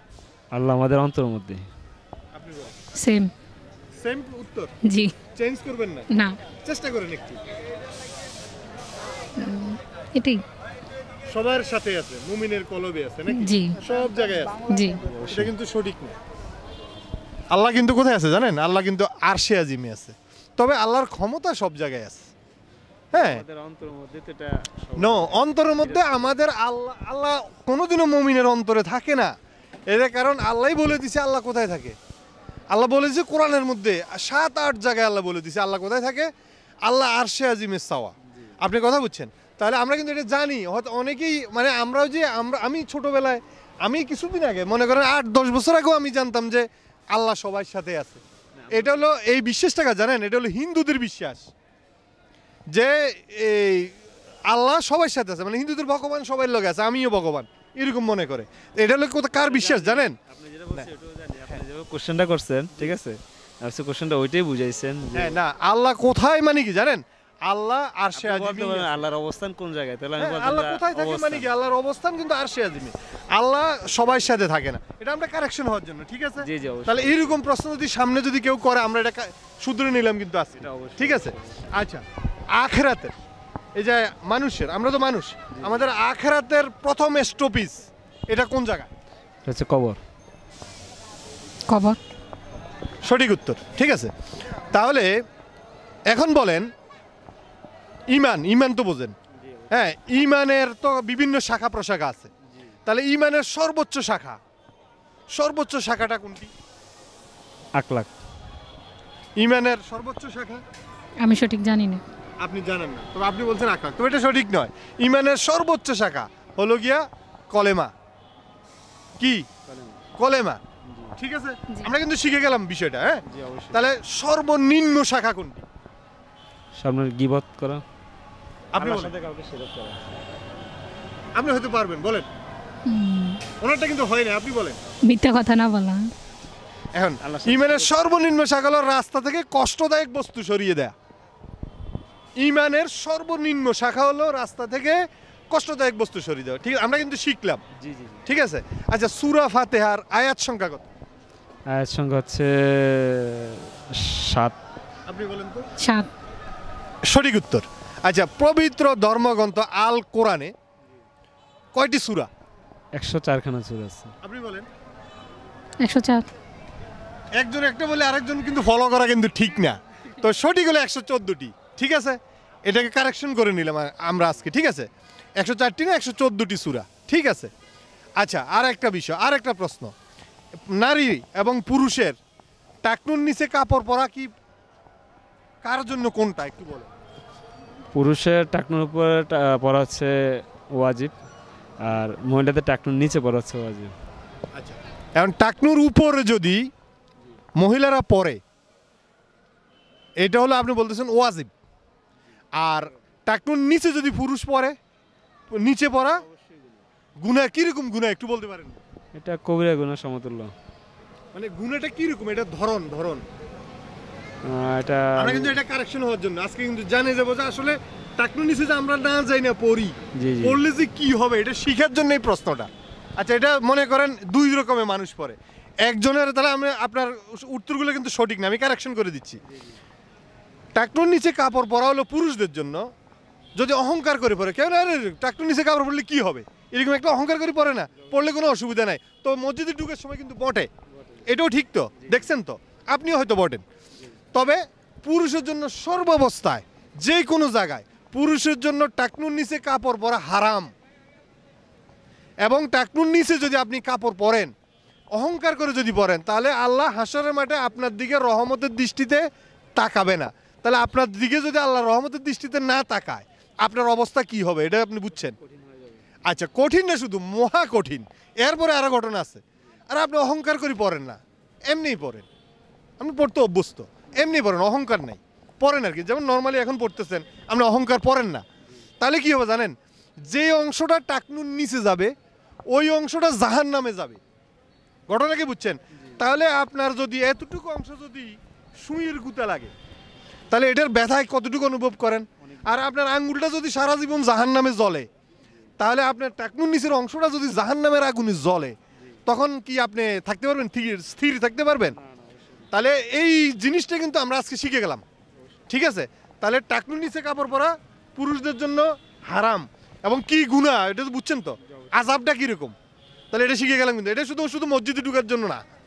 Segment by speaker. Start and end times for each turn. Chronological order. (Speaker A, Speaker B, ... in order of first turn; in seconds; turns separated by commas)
Speaker A: 0.5-1.7, Speaker B: 2.4-2.7, Speaker C: 3.0-3.3, Speaker B: 4.0-4.7, Speaker C: 4.8-5.1, Speaker B: 5.3-6.1, Speaker C: 6.1-6.4, Speaker B: 6.6-7.4, Speaker C: 9.4-10.4, Speaker B: 11.3-14.7, Speaker C: 13.3-13.8, Speaker C: 14.7-15.0, Speaker A: 15.0-15.5, Speaker B: 15.3-16.2, Speaker B: 17.5-22.3, Speaker B: 23.1-23.4, Speaker A: 23.1-26.4, Speaker B: 25.0-29.3, Speaker B: 29.9-32.0, Speaker B: 32.7-36.3, Speaker B: 36.8-51.5, Speaker A: 48.6-49.0, Speaker B: 52.7-54.0, Speaker B: 54.5-60.2, Speaker A: 59.3-65.4, Speaker B: 65.2-68.9, Speaker A: 68.2-71.5, Speaker B: 70.2-83.1, Speaker A: 76.4-77.4, Speaker A: 80.6-81.6, Speaker B: 83.8-88.9, Speaker A: 85.5-85.9, Speaker A: 89.5-90.0, Speaker C: 91.7-92.0, Speaker B: 93.0-94.1, Speaker B: 94.7-95.2, Speaker B: 96.1-96.7, Speaker B: 98.1-99.2, Speaker B: 99.7-102.3, Speaker B: 102.9-104.4, Speaker B: 105.3-106.5, Speaker A: 107.8-108.1, Speaker B: 109.4-110.6, Speaker C: 111.2-112.0, Speaker B: 112.4-117.9, Speaker B: 119.2-119.5, Speaker A: 119.7-120.0, Speaker B: 120.2-120.6, Speaker A: 120.8-121.2, Speaker B: 121.2-125.6, Speaker A: 123.3-123.8, Speaker A: 126.8-127.8, Speaker B: 128.7-129.2, Speaker A: 128.8-130.0, Speaker B: 131.3-132.3, Speaker C: 132.9-133.4, Speaker B: 133.6-134.8, Speaker C: 135.0-136.1, Speaker B: 136.9-140.9, Speaker A: 137.2-138.0, Speaker B: 142.4-147.6, Speaker A: 147.8-148.2, Speaker B: 148.2-150.9, Speaker A: 151.7-154.6, Speaker B: 155.1-155.7, Speaker C: 155.8-156.1, Speaker B: 157.1-160.5, Speaker B: 161.7-162.3, Speaker A: 162.9-164.1, Speaker B: 164.2-164.7, Speaker C: 165.8-166.3, Speaker B: 167.4-177.5, Speaker B: 178.2-179.9, Speaker B: 180.7-182.2, Speaker B: 182.8-184.3, Speaker B: 185.6-186.9, Speaker A: 187.9-191.1, Speaker A: 191.8-193.9, Speaker B: 194.5-196.7, Speaker B: 197.6-198.4, Speaker B: 200.2-201.5, Speaker B: 202.6-204.8, Speaker B: 205.5-206.2, Speaker A: 206.3-206.8, Speaker B: 207.2-208.8, Speaker A: 209.2-210.5, Speaker B: 211.3-213.2, Speaker A: 214.4-215.6, Speaker B: 215.2-229.4, Speaker A: 220.2-220.6, Speaker B: 230.8-232.9, Speaker B: 233.6-240.7, Speaker B: 241.3-243.6, Speaker A: 242.0-242.3, Speaker B: 244.3-250.7, Speaker B: 252.4-254.5, Speaker B: 255.1-259.3, Speaker B: 259.8-265.4, Speaker A: 265.2-266.0, Speaker B: 266.3-272.3, Speaker B: 273.0-278.4, Speaker B: 279.0-282.1, Speaker B: 282.7-284.2, Speaker B: 285.1-289.7, Speaker B: 290.5-295.1, Speaker B: 295.8-302.0, Speaker A: 301.9-302.7, Speaker B: 302.7-305.1, Speaker B: 305.7-312.8, Speaker B: 313.3-315.6